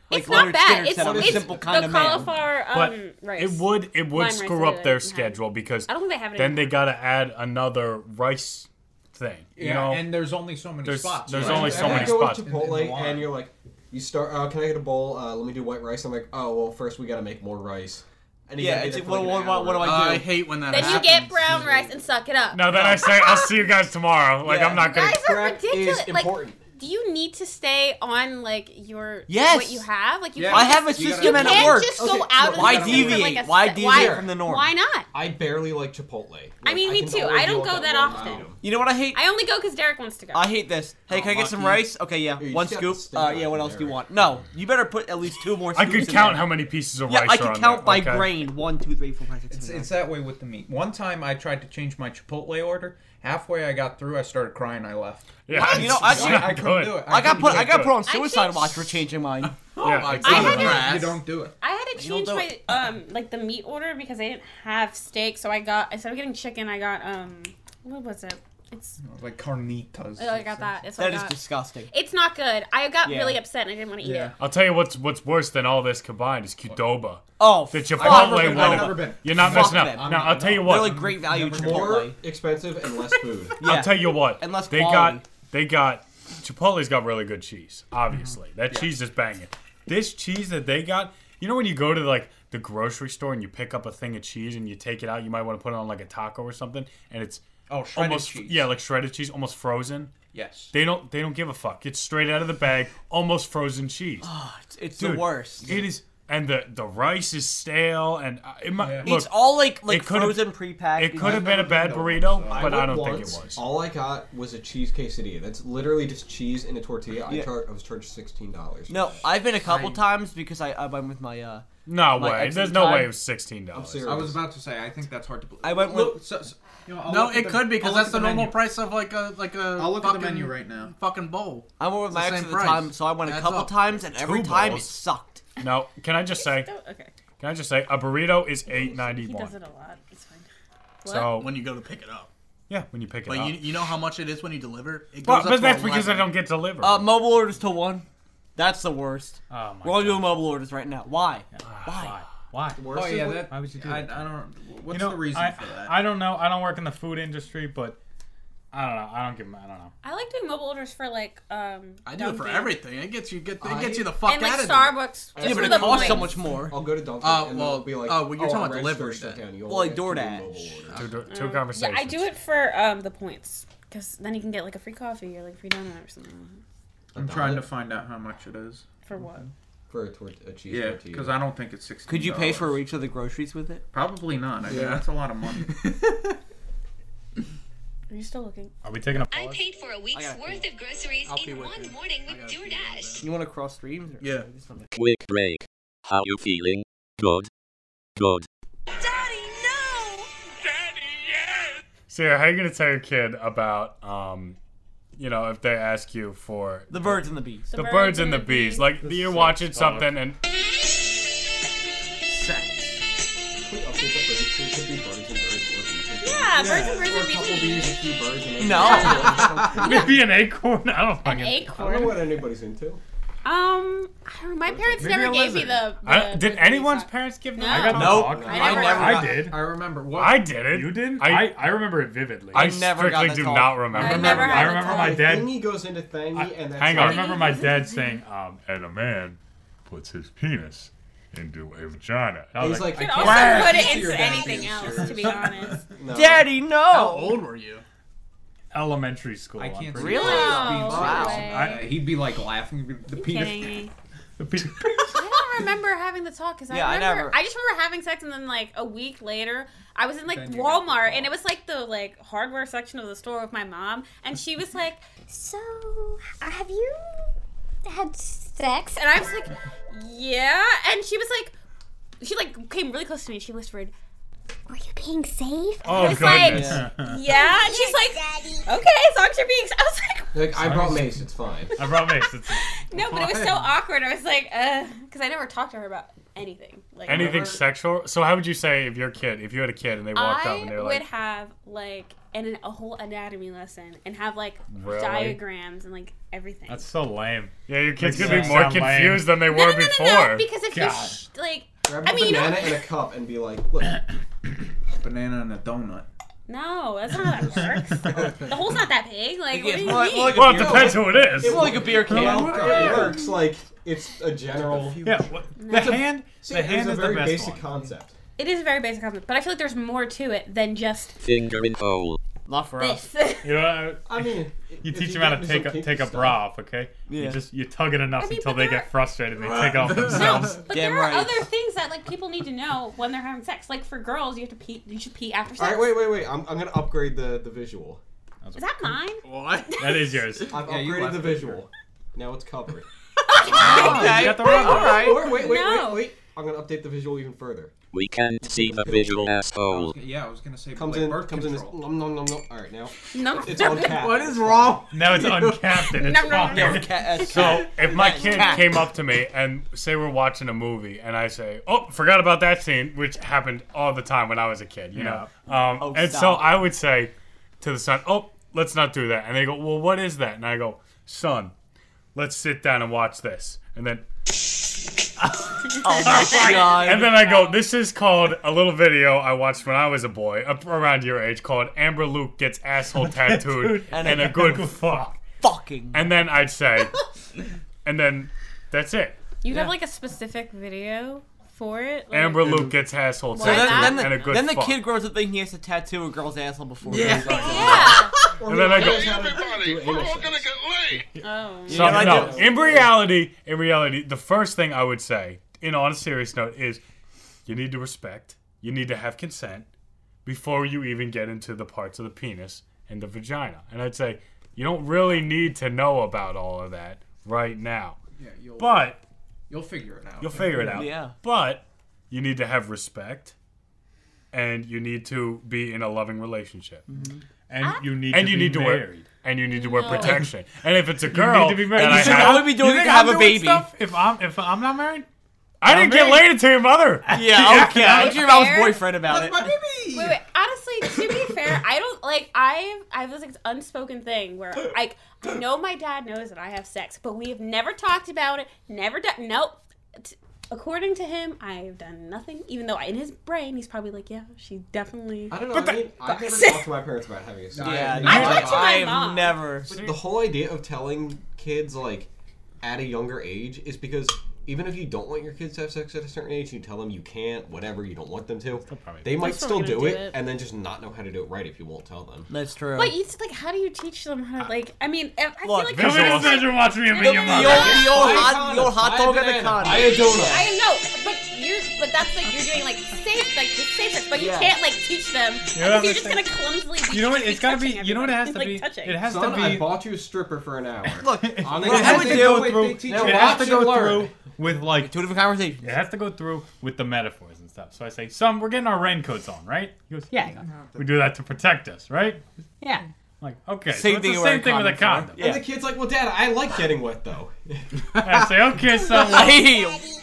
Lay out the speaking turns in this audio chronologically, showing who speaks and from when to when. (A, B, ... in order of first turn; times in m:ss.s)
0:00.1-0:06.8 A
0:00.1-0:02.3 B
0:01.0-0:01.8 C
0:02.7-0:10.2 D
0:09.6-0:13.2 E
0:10.8-0:12.5 D
0:11.3-0:20.1 C
0:18.6-0:20.3 B
0:19.8-0:21.6 F
0:20.7-0:23.5 A
0:21.6-0:21.9 C
0:22.5-0:25.2 D
0:22.7-0:23.0 F
0:24.5-0:24.8 B
0:24.8-0:35.1 A
0:25.1-0:26.6 C
0:29.3-0:29.9 B
0:30.4-0:31.8 E
0:30.5-0:34.7 B
0:31.9-0:33.3 C
0:32.5-0:33.2 E
0:33.8-0:34.4 C
0:35.1-0:38.6 C
0:36.6-0:38.5 A
0:38.1-0:38.4 E
0:38.6-0:39.2 B
0:39.1-0:40.5 A
0:40.3-0:46.5 B
0:41.1-0:41.9 F
0:42.4-0:44.3 C
0:45.8-0:48.4 D
0:47.1-0:50.0 B
0:49.5-0:57.9 E
0:55.5-0:57.9 D
0:55.5-0:59.6 B
0:58.0-0:58.9 A
0:59.8-1:01.2 F
0:59.8-1:00.8 D
1:00.1-1:01.5 E
1:00.2-1:01.1 A
1:01.6-1:09.0 A
1:02.0-1:02.5 B
1:09.0-1:10.8 E
1:10.2-1:14.4 A
1:11.0-1:11.9 B
1:13.0-1:13.4 B
1:14.0-1:14.4 E
1:14.4-1:21.1 D
1:17.4-1:22.2 B
1:18.0-1:22.1 E
1:21.5-1:23.6 C
1:23.6-1:25.2 B
1:23.6-1:37.4 D
1:28.1-1:28.9 E
1:37.7-1:38.7 E
1:37.9-1:40.1 D
1:40.3-1:40.7 E
1:40.7-1:44.3 D
1:44.2-1:45.7 B
1:45.0-1:53.6 D
1:45.7-1:45.9 E
1:48.8-1:49.1 E
1:49.0-1:51.5 B
1:51.2-1:52.8 E
1:52.5-1:59.3 C
1:57.3-1:57.5 B
1:58.9-2:03.1 B
1:59.6-2:00.0 E
2:01.9-2:04.1 D
2:03.7-2:04.4 C
2:04.0-2:08.6 E
2:05.6-2:06.2 B
2:07.0-2:14.0 F
2:09.8-2:10.9 E
2:11.8-2:15.4 B
2:14.2-2:14.9 D
2:15.6-2:16.7 D
2:16.4-2:17.1 A
2:17.4-2:19.6 D
2:18.7-2:20.5 A
2:21.0-2:21.4 A
2:21.0-2:21.6 D
2:21.3-2:22.3 F
2:22.7-2:23.8 D
2:23.3-2:26.3 F
2:25.2-2:27.1 D
2:26.8-2:28.0 B
2:28.6-2:32.2 B
2:29.5-2:30.5 G
2:31.6-2:34.3 G
2:32.8-2:33.4 C
2:32.9-2:36.0 E
2:34.9-2:38.0 G
2:38.7-2:39.9 G
2:40.0-2:42.8 A
2:42.0-2:45.0 F
2:43.6-2:44.2 C
2:44.2-2:46.4 A
2:45.4-2:51.1 C
2:45.4-2:46.8 B
2:47.2-2:49.5 F
2:49.7-2:50.6 B
2:50.9-2:52.3 D
2:51.3-2:56.6 A
2:57.1-2:57.7 C
2:57.2-2:59.5 E
2:59.0-2:59.5 A
2:59.9-3:01.4 C
3:00.7-3:02.8 E
3:02.1-3:03.8 B
3:03.9-3:05.8 E
3:04.7-3:05.0 F
3:05.6-3:06.0 F
3:08.1-3:08.7 A
3:08.8-3:09.6 G
3:09.3-3:13.2 H
3:10.1-3:10.6 B
3:11.2-3:13.3 F
3:13.2-3:14.9 B
3:14.2-3:14.5 F
3:14.9-3:17.5 I
3:18.2-3:18.5 I
3:19.0-3:20.3 H
3:22.1-3:24.6 D
3:25.2-3:30.4 D
3:26.9-3:27.7 B
3:27.7-3:29.0 A
3:33.6-3:40.1 C
3:36.2-3:38.0 A
3:36.6-3:36.9 F
3:38.6-3:39.6 B
3:38.6-3:40.2 A
3:39.8-3:41.7 G
3:41.2-3:42.4 A
3:41.7-3:43.0 C
3:43.4-3:49.4 A
3:44.7-3:45.1 C
3:45.0-3:45.9 G
3:46.0-3:47.1 D
3:47.1-3:49.7 G
3:47.8-3:49.4 B
3:48.0-3:49.2 C
3:49.3-3:50.5 E
3:50.2-3:51.6 D
3:50.7-3:52.8 G
3:52.5-3:54.7 D
3:52.5-3:54.4 B
3:53.9-3:55.3 A
3:54.0-3:55.7 G
3:54.1-3:57.4 C
3:56.3-4:03.7 G
3:56.8-3:57.2 D
3:57.0-3:58.2 A
4:02.6-4:04.9 C
4:02.9-4:05.9 A
4:03.2-4:05.4 E
4:05.9-4:06.5 C
4:06.1-4:07.4 B
4:06.9-4:07.8 F
4:08.7-4:11.9 G
4:09.6-4:13.8 E
4:10.0-4:11.6 B
4:10.0-4:12.0 A
4:13.1-4:13.9 A
4:14.4-4:15.3 G
4:15.1-4:27.3 A
4:16.7-4:17.4 B
4:20.3-4:21.3 E
4:27.8-4:31.5 A
4:32.2-4:33.9 A
4:34.7-4:40.5 A
4:35.8-4:37.2 G
4:36.0-4:36.8 B
4:36.0-4:36.4 D
4:37.4-4:38.5 H
4:40.3-4:41.8 C
4:40.6-4:41.2 G
4:41.8-4:42.7 G
4:41.9-4:47.4 A
4:43.0-4:43.7 F
4:47.1-4:51.0 D
4:50.1-4:56.9 A
4:54.7-4:55.4 D
4:56.7-4:59.3 G
4:57.7-5:00.5 D
4:59.4-5:02.9 A
5:00.7-5:01.3 G
5:01.9-5:04.0 C
5:05.0-5:06.1 E
5:06.5-5:10.5 A
5:08.2-5:08.5 F
5:09.5-5:13.1 B
5:10.3-5:11.7 D
5:10.3-5:18.1 C
5:12.0-5:13.2 G
5:12.5-5:13.1 E
5:14.6-5:15.2 E
5:15.0-5:17.8 G
5:15.6-5:16.1 A
5:18.4-5:21.2 A
5:21.2-5:22.2 I
5:22.5-5:23.1 B
5:22.8-5:23.6 A
5:23.4-5:30.6 G
5:24.0-5:26.4 C
5:27.1-5:27.4 B
5:28.2-5:28.9 A
5:29.4-5:30.6 F
5:30.0-5:36.1 A
5:30.7-5:31.4 B
5:35.6-5:38.0 C
5:38.4-5:39.0 G
5:38.6-5:40.0 A
5:39.2-5:40.1 F
5:39.8-5:40.6 G
5:40.5-5:42.9 C
5:40.6-5:41.6 E
5:43.3-5:46.1 A
5:43.4-5:45.3 B
5:43.5-5:47.7 C
5:43.5-5:45.1 G
5:47.9-5:50.0 I
5:48.5-5:49.4 C
5:49.7-5:51.8 E
5:50.7-5:54.8 C
5:53.1-5:54.2 A
5:53.6-5:55.8 F
5:54.9-5:57.6 G
5:56.0-5:58.6 A
5:56.4-5:58.7 B
5:57.3-6:11.5 D
6:04.9-6:05.3 G
6:05.8-6:06.6 B
6:12.2-6:14.0 D
6:15.8-6:17.2 B
6:15.9-6:17.5 A
6:16.0-6:16.9 G
6:16.4-6:25.0 D
6:23.0-6:25.2 G
6:23.9-6:24.6 B
6:25.4-6:26.1 B
6:25.9-6:27.0 D
6:27.8-6:29.2 D
6:29.4-6:32.6 A
6:32.1-6:34.8 D
6:33.3-6:34.4 A
6:33.4-6:38.1 B
6:36.9-6:37.8 G
6:37.0-6:40.5 C
6:37.2-6:38.2 A
6:38.5-6:39.1 D
6:41.2-6:42.3 A
6:41.7-6:42.5 B
6:41.7-6:46.8 D
6:41.9-6:43.0 C
6:47.5-6:49.7 D
6:50.2-6:58.0 D
6:58.2-6:59.0 E
6:58.6-6:59.0 D
6:59.5-7:00.9 E
7:00.2-7:03.4 D
7:00.7-7:01.2 B
7:04.3-7:06.8 D
7:06.9-7:07.2 B
7:07.5-7:09.1 G
7:08.0-7:12.6 D
7:09.5-7:10.2 A
7:09.9-7:10.3 G
7:11.1-7:15.1 G
7:11.8-7:13.7 B
7:15.6-7:17.3 D
7:15.7-7:16.4 G
7:17.1-7:18.2 G
7:17.1-7:19.5 B
7:17.8-7:18.9 A
7:19.0-7:20.2 E
7:19.9-7:36.8 A
7:35.3-7:38.6 C
7:37.5-7:38.9 E
7:37.6-7:39.8 B
7:38.0-7:39.6 A
7:39.7-7:42.1 C
7:42.6-7:52.3 C
7:48.7-7:49.2 G
7:49.1-7:50.2 A
7:52.3-7:53.0 B
7:52.8-7:58.3 A
7:55.4-7:56.3 B
7:55.7-7:56.5 D
7:55.8-7:57.9 G
7:56.9-8:00.4 B
7:57.4-8:00.5 C
7:59.9-8:09.1 A
8:04.2-8:04.5 B
8:05.5-8:06.3 G
8:06.8-8:09.8 G
8:09.0-8:14.2 C
8:11.0-8:12.8 B
8:11.4-8:14.9 G
8:11.6-8:13.6 E
8:14.8-8:15.7 B
8:15.6-8:22.2 G
8:23.2-8:25.2 G
8:23.7-8:25.4 B
8:25.2-8:28.2 C
8:28.0-8:29.6 G
8:28.9-8:29.8 B